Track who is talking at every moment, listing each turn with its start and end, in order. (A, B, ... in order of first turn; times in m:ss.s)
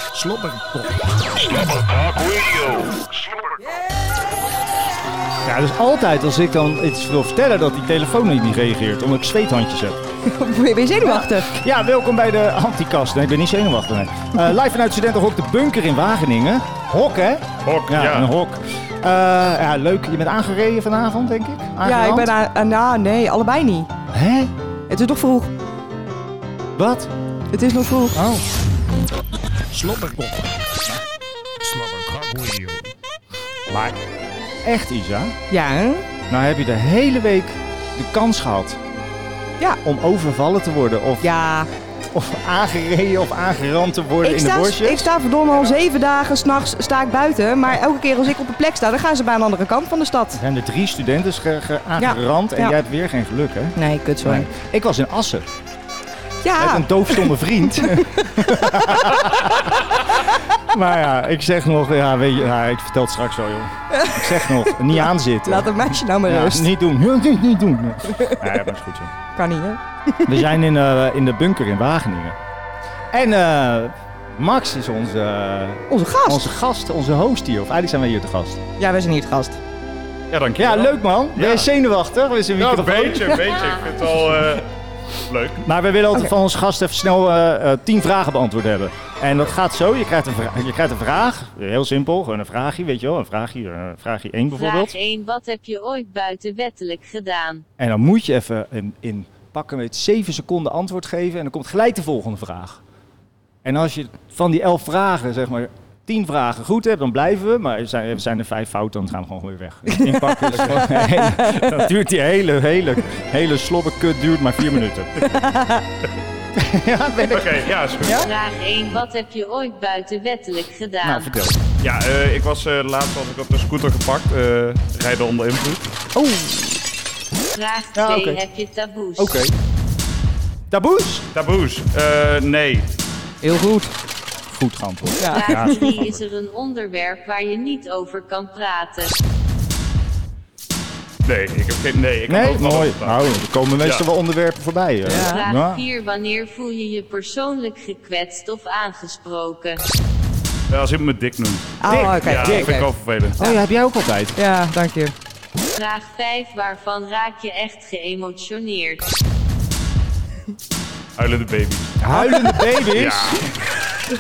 0:00.1-0:01.3 A
0:01.3-0:03.3 B
0:05.4-0:10.0 C
0:10.2-0:11.5 D
0:11.0-0:22.3 C
0:17.6-0:18.3 E
0:21.8-0:23.9 D
0:24.1-0:24.5 C
0:24.9-0:25.5 D
0:26.7-0:27.1 C
0:27.5-0:28.2 D
0:28.1-0:28.4 C
0:29.7-0:30.6 A
0:31.6-0:32.9 A
0:33.7-0:34.0 C
0:34.6-0:35.4 C
0:35.5-0:36.0 D
0:36.3-0:38.8 C
0:39.8-0:41.3 C
0:41.2-0:41.7 D
0:42.1-0:45.1 C
0:44.2-0:50.4 D
0:50.3-0:55.5 C
0:52.0-0:52.8 D
0:53.8-0:54.5 D
0:56.4-0:58.5 D
0:56.6-0:59.5 C
1:00.6-1:09.1 C
1:03.9-1:04.5 D
1:05.4-1:06.7 D
1:08.1-1:08.4 D
1:09.3-1:10.5 D
1:10.2-1:12.4 C
1:13.1-1:18.6 C
1:15.9-1:16.5 D
1:18.8-1:19.6 D
1:20.3-1:21.7 E
1:20.6-1:23.6 C
1:22.6-1:24.7 E
1:25.3-1:25.6 E
1:25.6-1:34.9 C
1:34.5-1:37.6 F
1:37.8-1:42.8 C
1:43.6-1:55.2 C
1:49.9-1:51.8 D
1:55.4-1:55.8 D
1:56.6-1:58.3 C
1:57.3-1:58.2 E
1:58.1-2:01.3 F
2:01.0-2:01.6 C
2:01.8-2:05.8 E
2:06.2-2:06.8 D
2:07.5-2:09.4 F
2:08.0-2:08.4 C
2:09.2-2:09.5 C
2:10.7-2:11.2 C
2:11.3-2:12.9 E
2:13.4-2:13.9 D
2:14.5-2:16.2 C
2:15.2-2:15.8 D
2:15.3-2:19.1 F
2:21.2-2:23.2 E
2:22.3-2:25.8 C
2:25.0-2:25.4 D
2:25.2-2:29.8 F
2:30.7-2:33.4 E
2:31.8-2:32.9 D
2:31.9-2:32.8 C
2:33.4-2:34.4 C
2:34.4-2:35.1 D
2:35.7-2:39.2 F
2:41.2-2:42.0 E
2:42.0-2:43.4 C
2:42.9-2:43.5 E